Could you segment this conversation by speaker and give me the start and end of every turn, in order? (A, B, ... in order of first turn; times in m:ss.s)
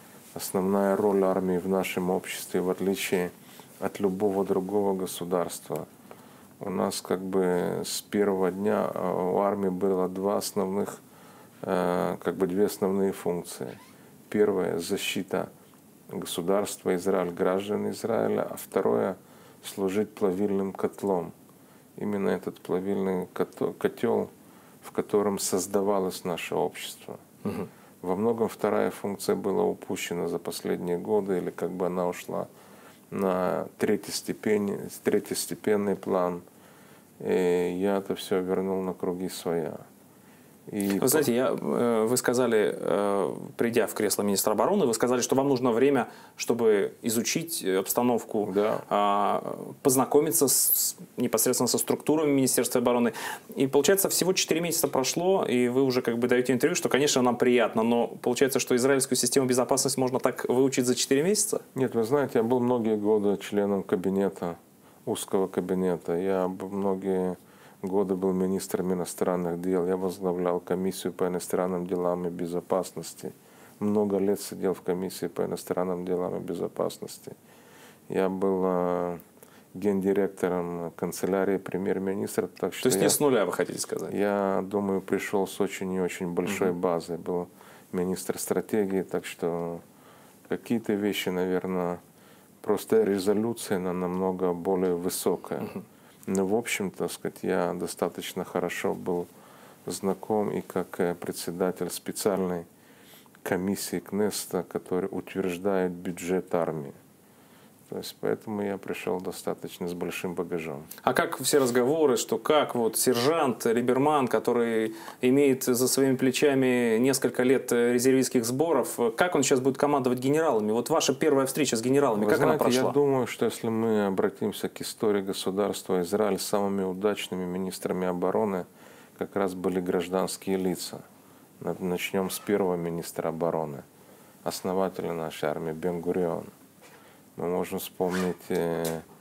0:00.4-0:05.9 A
0:06.6-0:11.0 A
0:11.6-0:15.5 A
0:16.1-0:21.3 A
0:22.0-0:24.3 A
0:24.8-0:27.2 A
0:28.0-0:32.5 A
0:33.1-0:36.4 A
0:37.2-0:39.8 A
0:40.7-0:41.3 A
0:41.0-1:01.6 B
0:48.5-0:48.8 A
1:01.8-1:17.4 A
1:18.1-1:19.2 A
1:19.7-1:23.2 A
1:22.8-1:24.2 B
1:24.1-1:29.8 A
1:30.5-1:32.0 A
1:32.6-1:39.3 A
1:39.9-1:42.7 A
1:43.4-1:47.0 A
1:47.9-1:50.9 A
1:51.0-2:03.0 B
2:02.2-2:08.7 A
2:09.2-2:11.0 A
2:11.6-2:13.8 A
2:14.4-2:16.5 A
2:17.4-2:19.0 A